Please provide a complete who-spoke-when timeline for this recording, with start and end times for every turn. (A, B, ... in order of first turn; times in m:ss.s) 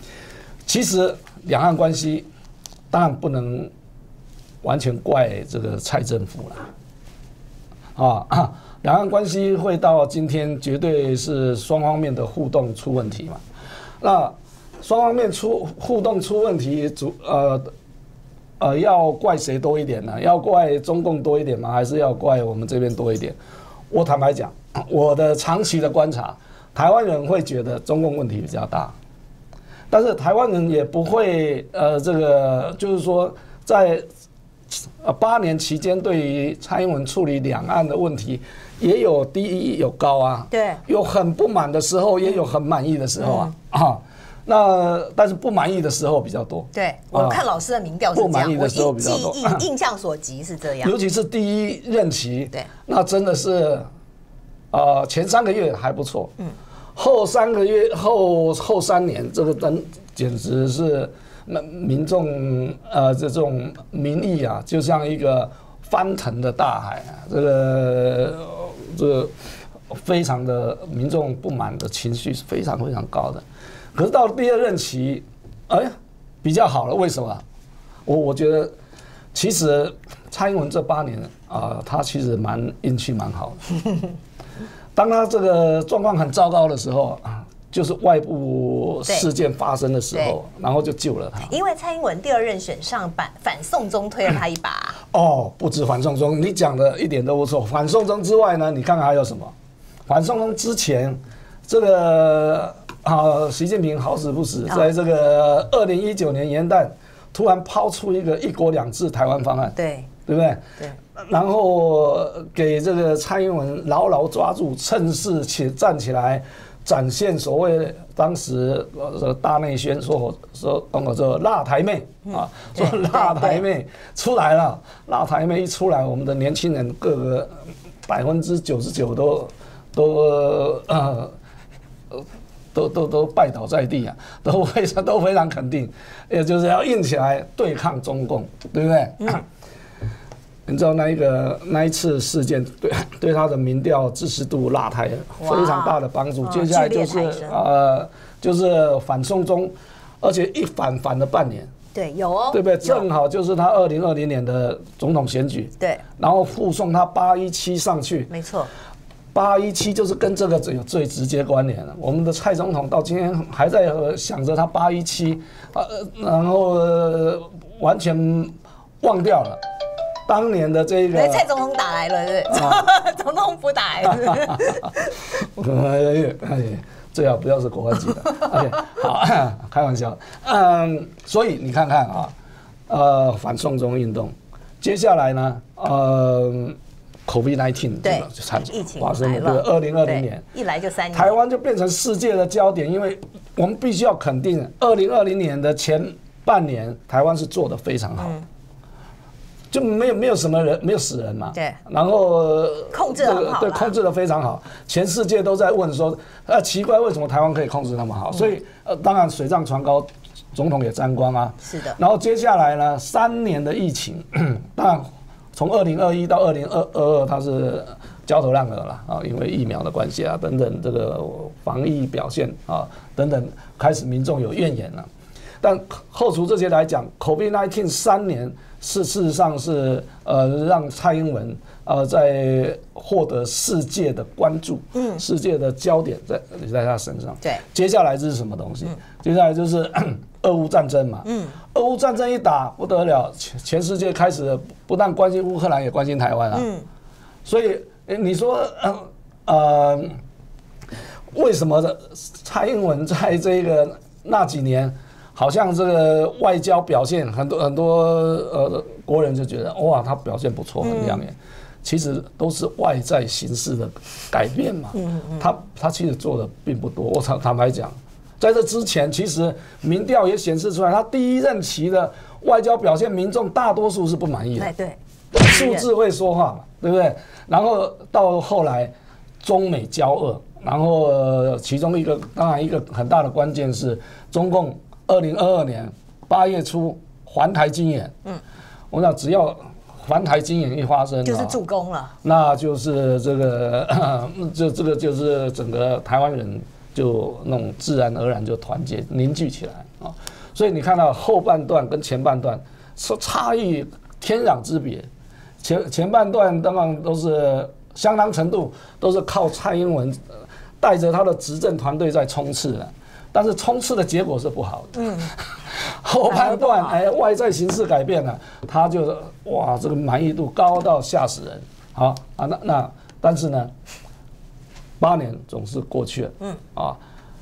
0:00.6-0:02.3 A
0:02.9-0:03.7 A
0:04.6-0:06.7 A
0:08.0-0:13.4 A
0:14.0-0:17.7 A
0:18.6-0:23.4 A
0:23.9-0:29.0 A
0:29.9-0:34.1 A
0:35.0-0:47.4 A
0:40.5-0:40.8 B
0:43.2-0:43.5 B
0:46.7-0:51.0 B
0:48.1-0:49.6 A
0:50.8-0:53.9 A
0:54.7-0:56.3 A
0:57.0-1:09.3 A
1:09.9-1:17.4 A
1:18.1-1:18.7 A
1:19.3-1:23.6 A
1:25.0-1:31.5 A
1:31.4-1:35.0 B
1:35.0-1:39.5 A
1:40.1-1:50.6 A
1:49.8-1:50.1 B
1:51.2-2:07.5 A
2:02.3-2:03.6 B
2:08.1-2:11.3 A
2:12.1-2:19.4 A
2:20.7-2:31.7 A
2:25.4-2:27.6 B
2:31.9-2:33.1 B
2:32.5-2:38.3 A
2:38.3-2:38.7 B
2:39.3-2:49.6 A
2:50.3-2:51.4 A
2:51.1-2:54.9 B
2:52.5-2:52.8 A
2:55.4-3:02.4 A
3:02.9-3:10.5 A
3:08.0-3:11.4 B
3:11.1-3:18.4 A
3:18.2-3:18.4 B
3:19.7-3:45.1 A
3:21.5-3:21.8 B
3:22.9-3:24.0 B
3:31.7-3:32.0 B
3:45.6-4:06.7 A
3:54.9-3:55.2 B
4:01.2-4:01.6 B
4:06.5-4:06.9 B
4:07.4-4:10.2 A
4:11.3-4:34.7 A
4:20.8-4:21.2 B
4:24.9-4:25.5 B
4:34.6-4:35.9 B
4:35.3-4:48.1 A
4:48.9-4:51.6 A
4:51.2-4:52.1 B
4:52.2-5:05.1 A
5:05.6-5:10.2 A
5:10.8-5:23.7 A
5:15.0-5:15.3 B
5:16.3-5:17.0 B
5:25.0-5:27.0 A